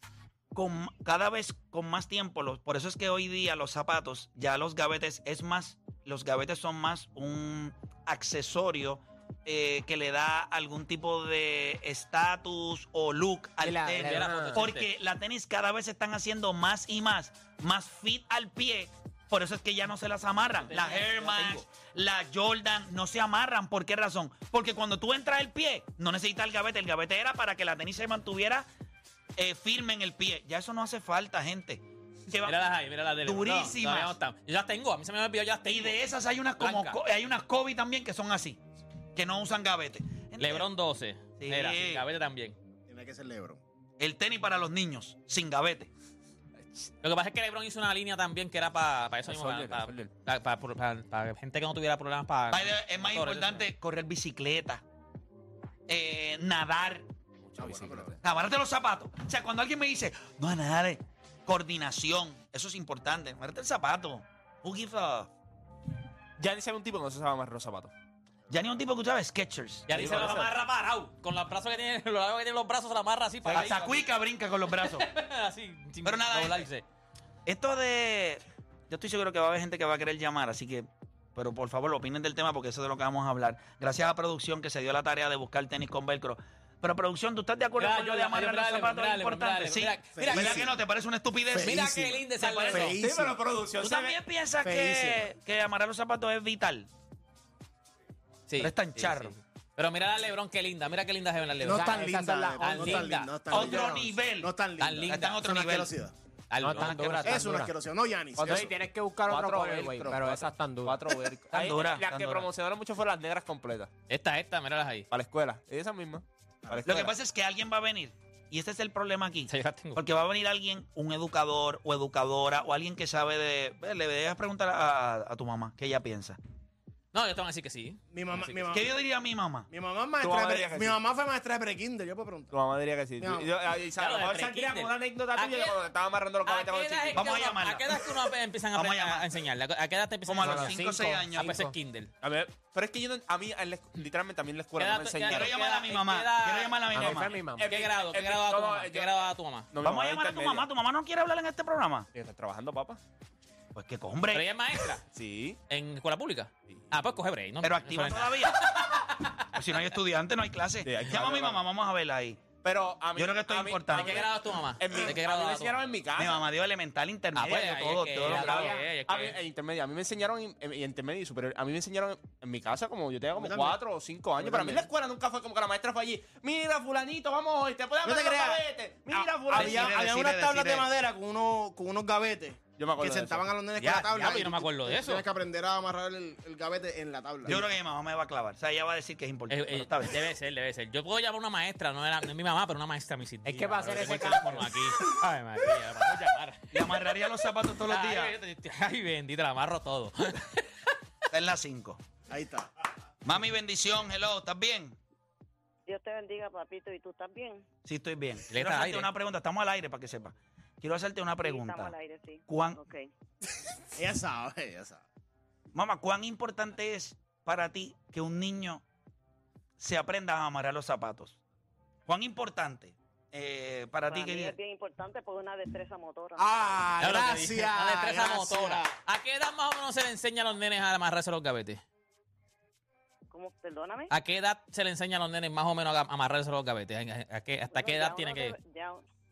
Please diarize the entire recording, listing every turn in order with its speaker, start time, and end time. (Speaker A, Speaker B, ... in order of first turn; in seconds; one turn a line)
Speaker A: 0.5-28.7
Speaker B: 13.6-14.7
Speaker C: 13.9-14.9
Speaker C: 20.8-21.4
Speaker A: 29.4-32.6
Speaker C: 32.4-36.0
Speaker A: 33.2-34.1
Speaker A: 35.7-38.6
Speaker C: 36.6-37.0
Speaker A: 39.1-40.7
Speaker C: 40.4-42.5
Speaker A: 41.4-42.0
Speaker D: 42.9-43.6
Speaker A: 44.0-45.9
Speaker E: 46.6-46.9
Speaker C: 47.0-53.6
Speaker E: 49.2-50.1
Speaker A: 52.5-54.8
Speaker A: 55.9-57.1
Speaker E: 57.4-58.2
Speaker D: 57.6-58.2
Speaker A: 58.2-65.3
Speaker E: 66.4-67.9
Speaker A: 68.5-70.4
Speaker C: 69.9-73.9
Speaker E: 69.9-70.5
Speaker A: 73.4-75.1
Speaker E: 73.5-74.0
Speaker C: 74.7-76.8
Speaker A: 76.0-76.7
Speaker A: 77.5-91.9
Speaker C: 87.8-90.7
Speaker D: 90.1-90.7
Speaker D: 91.5-93.4
Speaker C: 91.6-93.0
Speaker A: 92.4-92.9
Speaker E: 92.9-94.2
Speaker A: 93.8-96.9
Speaker D: 94.6-95.3
Speaker C: 98.5-102.0
Speaker A: 98.6-99.3
Speaker D: 101.6-106.1
Speaker B: 101.6-104.0
Speaker C: 102.6-103.4
Speaker A: 103.5-104.5
Speaker C: 104.8-105.4
Speaker A: 105.1-105.9
Speaker C: 106.5-107.5
Speaker B: 106.6-107.7
Speaker D: 106.9-108.7
Speaker E: 108.4-108.7
Speaker B: 108.4-111.8
Speaker E: 109.3-113.9
Speaker A: 111.5-112.5
Speaker C: 114.1-115.1
Speaker E: 115.1-117.2
Speaker A: 116.8-126.4
Speaker C: 119.5-120.0
Speaker C: 127.1-128.0
Speaker D: 128.1-128.9
Speaker A: 128.7-129.7
Speaker D: 129.7-132.5
Speaker E: 130.2-131.0
Speaker E: 132.5-137.3
Speaker D: 133.2-133.5
Speaker C: 134.0-135.8
Speaker C: 136.4-142.1
Speaker A: 137.1-138.1
Speaker A: 138.7-139.3
Speaker A: 140.2-141.6
Speaker B: 140.4-141.8
Speaker E: 142.2-145.6
Speaker C: 144.8-149.7
Speaker A: 145.2-147.3
Speaker B: 146.9-147.7
Speaker E: 147.6-150.7
Speaker A: 149.8-152.1
Speaker E: 152.1-153.0
Speaker A: 153.7-154.5
Speaker C: 154.3-155.0
Speaker E: 155.1-155.6
Speaker C: 155.7-159.5
Speaker A: 157.6-162.4
Speaker E: 160.8-161.6
Speaker E: 162.6-166.5
Speaker A: 163.2-164.2
Speaker C: 163.9-165.8
Speaker A: 166.2-168.8
Speaker C: 167.3-169.4
Speaker E: 167.4-167.7
Speaker E: 168.2-179.9
Speaker B: 168.4-168.9
Speaker D: 173.3-173.8
Speaker D: 174.4-174.9
Speaker D: 178.0-178.6
Speaker A: 179.1-180.9
Speaker D: 179.5-187.6
Speaker E: 182.8-183.5
Speaker C: 183.8-185.2
Speaker A: 187.4-190.2
Speaker C: 189.5-196.6
Speaker B: 193.4-194.8
Speaker A: 196.7-198.3
Speaker C: 197.8-200.9
Speaker A: 201.3-202.0
Speaker D: 202.3-202.7
Speaker A: 203.2-204.9
Speaker F: 205.8-207.7
Speaker A: 207.8-211.9
Speaker C: 208.5-209.1
Speaker F: 211.4-213.1
Speaker A: 212.5-212.8
Speaker D: 213.9-215.0
Speaker A: 215.7-218.8
Speaker A: 219.8-221.4
Speaker A: 222.1-224.5
Speaker F: 224.1-226.4
Speaker D: 226.4-228.9
Speaker C: 227.0-231.8
Speaker F: 233.3-234.1
Speaker C: 234.1-238.6
Speaker F: 237.7-239.0